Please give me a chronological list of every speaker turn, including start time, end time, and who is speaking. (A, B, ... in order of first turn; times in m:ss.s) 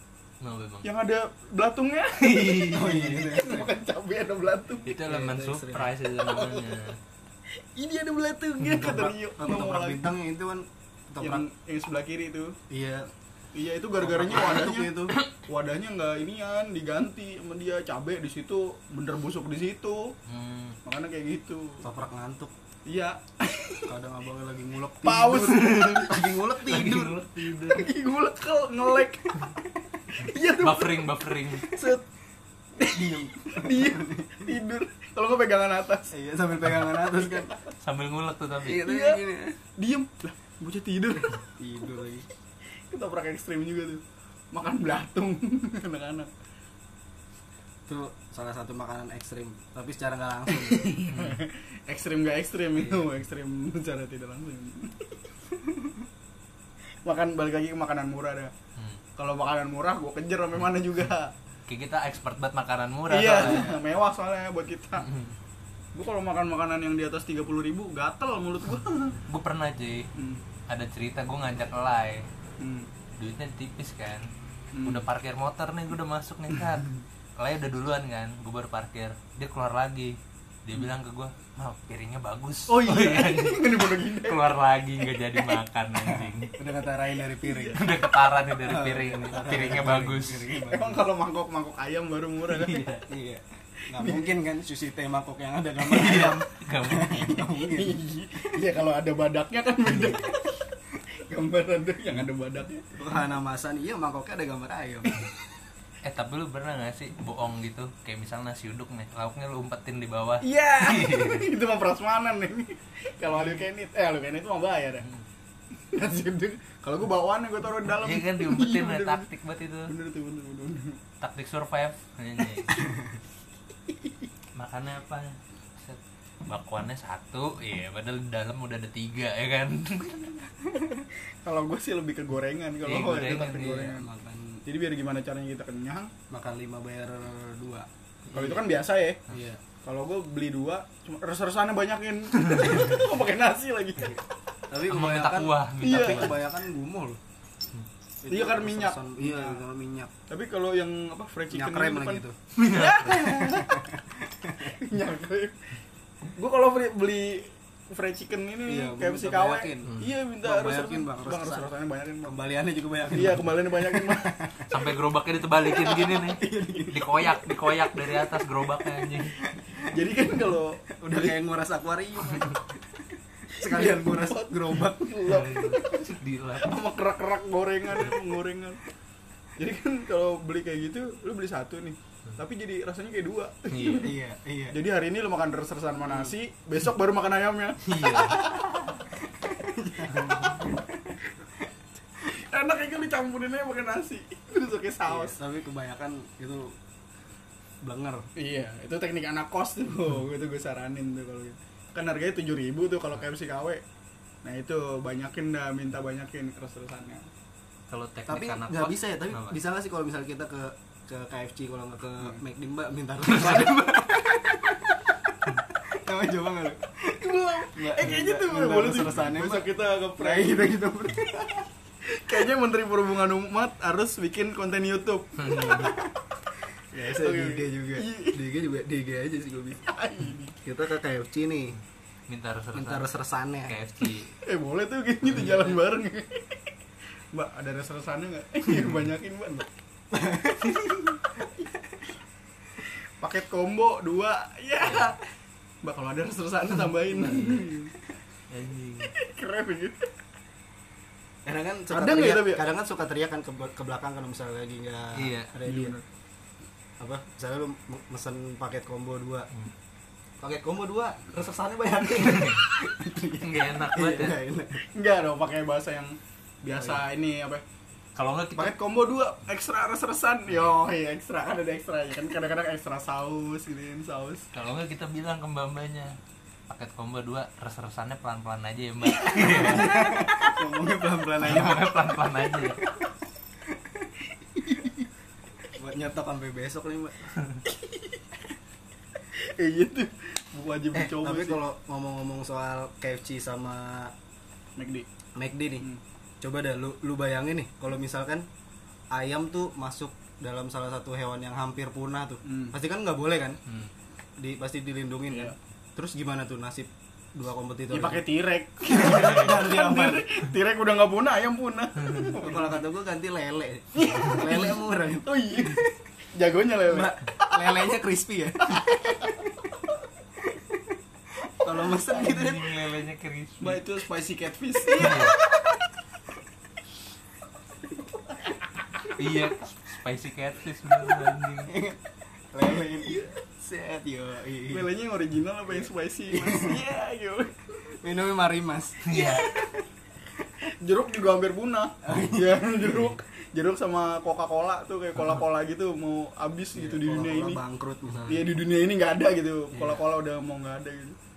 0:00.4-0:00.9 A
0:00.8-0:04.9 B
0:02.2-0:03.1 A
0:02.6-0:03.7 C
0:04.8-0:07.0 A
0:05.0-0:05.9 C
0:06.2-0:06.8 B
0:07.8-0:10.1 B
0:08.6-0:08.9 A
0:08.8-0:11.4 C
0:11.2-0:12.6 B
0:12.7-0:13.1 C
0:13.6-0:20.1 B
0:14.0-0:15.2 C
0:20.3-0:20.8 A
0:20.8-0:21.8 B
0:21.8-0:22.5 C
0:22.9-0:23.9 B
0:23.9-0:27.2 C
0:25.0-0:26.2 B
0:26.6-0:27.9 A
0:27.7-0:29.4 B
0:30.2-0:32.0 B
0:30.2-0:31.8 A
0:32.8-0:36.1 B
0:32.8-0:34.4 C
0:36.1-0:37.5 C
0:37.2-0:37.5 B
0:37.8-0:38.8 A
0:38.6-0:39.6 C
0:38.8-0:39.2 B
0:39.8-0:41.4 B
0:41.6-0:42.3 C
0:42.9-0:46.3 B
0:47.9-0:51.0 C
0:50.6-0:55.1 B
0:51.1-0:51.4 A
0:52.8-0:53.0 A
0:57.1-0:58.5 B
0:59.2-1:01.3 B
1:01.7-1:03.7 A
1:03.1-1:05.1 B
1:05.0-1:05.4 A
1:06.0-1:09.2 B
1:09.3-1:10.1 A
1:10.2-1:10.4 B
1:10.7-1:12.3 A
1:12.6-1:12.9 B
1:13.2-1:14.3 A
1:14.7-1:15.0 B
1:14.8-1:26.5 A
1:22.7-1:24.5 B
1:26.6-1:27.8 C
1:27.4-1:27.7 B
1:27.7-1:30.5 A
1:28.6-1:31.1 C
1:30.6-1:32.9 B
1:32.5-1:33.0 A
1:33.1-1:38.0 C
1:34.0-1:34.3 B
1:35.8-1:37.4 A
1:37.7-1:40.6 B
1:41.3-1:42.8 B
1:43.0-1:45.1 C
1:46.0-1:51.4 A
1:50.4-1:55.0 B
1:53.3-1:53.6 A
1:55.9-1:59.3 B
1:58.0-1:59.9 A
1:59.9-2:01.0 B
2:01.2-2:02.8 A
2:04.6-2:10.3 A
2:11.4-2:14.1 B
2:12.8-2:14.0 A
2:13.8-2:14.6 C
2:14.7-2:16.1 B
2:16.3-2:18.6 C
2:18.3-2:19.2 B
2:19.3-2:19.6 C
2:19.8-2:24.2 B
2:22.4-2:23.0 A
2:24.7-2:27.2 C
2:24.9-2:26.4 A
2:25.8-2:26.4 B
2:28.2-2:30.1 C
2:28.3-2:29.6 B
2:30.3-2:33.8 B
2:31.5-2:32.4 C
2:32.6-2:33.4 A
2:33.4-2:34.8 C
2:34.7-2:35.6 B
2:36.4-2:42.4 B
2:38.7-2:41.7 C
2:42.2-2:44.7 C
2:43.1-2:44.4 B
2:44.7-2:49.4 A
2:45.8-2:47.3 C
2:49.4-2:49.8 C
2:49.9-2:51.4 B
2:51.0-2:52.7 C
2:53.6-2:55.2 C
2:53.6-2:58.8 B
2:55.3-2:56.7 A
2:59.6-3:04.2 B
3:03.7-3:04.1 A
3:04.0-3:04.8 C
3:04.7-3:09.1 B
3:07.8-3:08.5 A
3:09.8-3:11.2 C
3:10.0-3:10.5 B
3:10.2-3:10.4 A
3:12.2-3:15.4 B
3:15.1-3:16.7 C
3:17.8-3:18.3 C
3:18.4-3:23.8 B
3:24.4-3:27.3 B
3:27.9-3:29.6 A
3:28.3-3:35.2 C
3:35.7-3:37.0 C
3:37.1-3:40.8 B
3:37.7-3:41.6 C
3:42.1-3:46.0 B
3:45.4-3:46.0 A
3:46.9-3:49.9 C
3:47.1-3:48.4 B
3:49.8-3:50.6 B
3:50.6-3:51.8 C
3:52.3-3:53.1 A
3:52.7-3:53.8 C
3:53.7-3:54.3 A
3:54.4-3:56.6 B
3:55.3-3:55.7 A
3:57.3-3:59.7 B
4:00.1-4:01.0 C
4:03.2-4:05.2 B
4:04.8-4:05.1 A
4:05.8-4:07.9 B
4:07.1-4:07.7 A
4:08.5-4:09.1 A
4:09.2-4:10.1 B
4:11.4-4:16.0 C
4:11.9-4:12.7 B
4:15.2-4:15.5 A
4:15.6-4:16.0 B
4:17.0-4:19.5 C
4:20.4-4:24.8 C
4:22.2-4:22.6 A
4:23.4-4:24.4 A
4:24.8-4:27.6 B
4:28.2-4:28.7 A
4:28.6-4:34.5 B
4:34.5-4:36.2 A
4:36.7-4:40.0 A
4:39.2-4:42.0 C
4:41.4-4:42.8 A
4:44.6-4:45.0 B
4:45.7-4:47.3 C
4:47.7-4:48.2 B
4:49.3-4:51.6 B
4:50.9-4:54.1 C
4:54.8-4:55.1 B
4:55.4-4:55.9 C
4:56.4-4:58.5 C
4:59.1-5:03.6 C
5:02.4-5:02.8 B
5:04.4-5:08.3 C
5:07.9-5:12.9 B
5:08.9-5:10.3 C
5:12.4-5:15.7 C
5:14.0-5:17.7 B
5:16.9-5:18.8 C
5:18.7-5:19.4 B
5:21.4-5:22.8 C
5:22.1-5:23.8 A
5:23.6-5:25.5 B
5:25.0-5:25.4 A
5:29.2-5:31.7 A
5:31.7-5:34.9 C
5:34.7-5:37.6 B
5:35.7-5:36.8 C
5:38.0-5:39.3 C
5:39.0-5:39.5 A
5:39.1-5:39.7 B
5:40.8-5:47.6 B
5:42.0-5:42.6 C
5:46.7-5:48.5 C
5:48.3-5:51.2 B
5:49.7-5:50.0 C